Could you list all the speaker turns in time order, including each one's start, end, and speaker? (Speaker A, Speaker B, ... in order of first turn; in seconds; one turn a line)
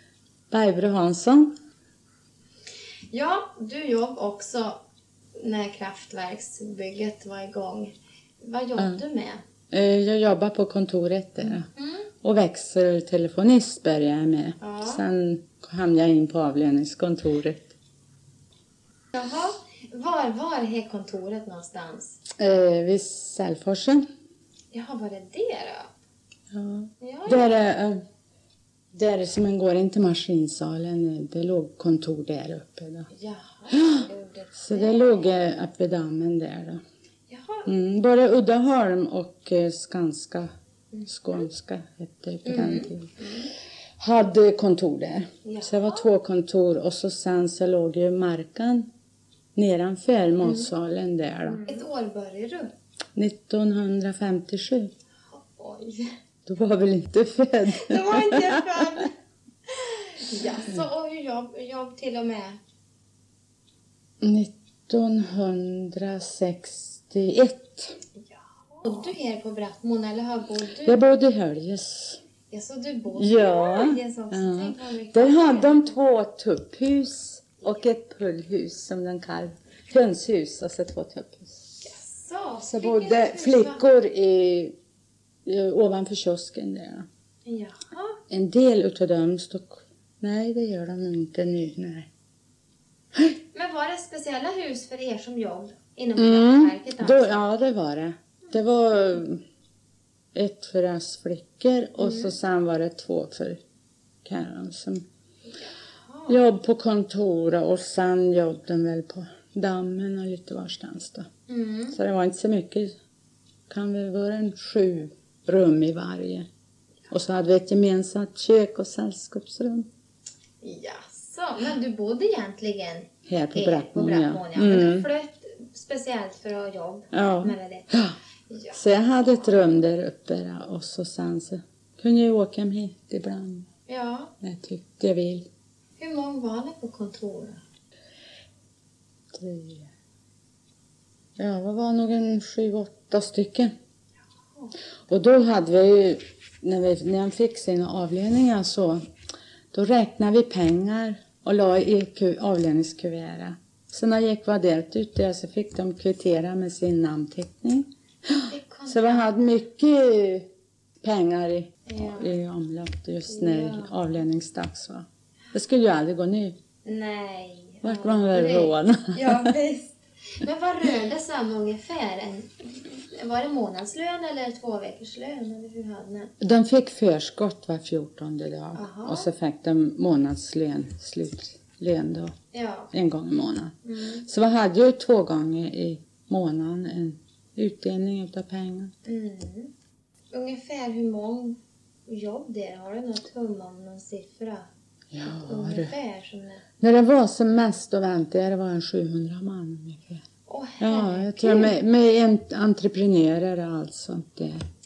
Speaker A: 0.5-1.5
Speaker B: 3.1-4.8
Speaker B: 5.4-9.4
Speaker A: 9.7-11.7
Speaker B: 11.7-12.1
Speaker A: 12.2-17.7
Speaker B: 14.6-15.0
Speaker B: 19.1-22.2
Speaker A: 22.4-24.0
Speaker B: 24.7-25.9
Speaker A: 26.5-28.0
Speaker B: 27.0-27.6
Speaker A: 28.9-33.1
Speaker B: 33.1-35.3
Speaker A: 33.7-36.8
Speaker B: 37.3-37.7
Speaker A: 37.6-40.5
Speaker B: 40.9-41.4
Speaker A: 41.1-43.2
Speaker B: 42.5-43.5
Speaker A: 44.0-48.9
Speaker B: 45.4-46.1
Speaker A: 49.5-51.7
Speaker B: 50.4-50.7
Speaker B: 51.6-52.7
Speaker A: 53.1-54.9
Speaker B: 55.3-56.1
Speaker A: 56.5-59.0
Speaker B: 57.7-59.1
Speaker B: 59.7-62.6
Speaker A: 64.2-67.9
Speaker B: 68.7-71.0
Speaker A: 70.8-72.2
Speaker B: 72.5-76.0
Speaker A: 73.1-81.6
Speaker B: 81.8-83.8
Speaker A: 82.6-84.7
Speaker A: 85.5-87.0
Speaker B: 87.5-88.2
Speaker A: 88.3-92.1
Speaker B: 93.5-97.4
Speaker A: 96.2-99.4
Speaker A: 100.3-103.6
Speaker B: 102.0-102.3
Speaker A: 104.2-105.0
Speaker B: 106.0-106.4
Speaker A: 106.3-111.3
Speaker B: 111.5-112.0
Speaker A: 111.9-112.9
Speaker A: 113.7-116.5
Speaker A: 117.1-119.9
Speaker B: 120.6-127.9
Speaker A: 123.2-125.1
Speaker A: 127.1-128.1
Speaker B: 128.5-128.8
Speaker A: 128.7-133.7
Speaker B: 133.9-134.3
Speaker A: 134.4-135.5
Speaker B: 136.0-137.6
Speaker A: 139.3-139.9
Speaker A: 141.4-143.7
Speaker A: 145.1-149.0
Speaker A: 149.7-160.5
Speaker B: 158.5-159.3
Speaker A: 161.0-166.6
Speaker B: 161.8-162.4
Speaker B: 163.3-164.0
Speaker B: 166.8-176.3
Speaker A: 167.8-169.5
Speaker A: 176.4-182.3
Speaker B: 178.7-179.3
Speaker B: 182.5-182.9
Speaker A: 182.9-188.9
Speaker B: 183.8-184.2
Speaker B: 189.1-189.7
Speaker B: 190.3-194.7
Speaker A: 195.1-195.9
Speaker B: 195.2-196.6
Speaker A: 196.8-200.2
Speaker B: 200.5-201.7
Speaker A: 200.8-204.6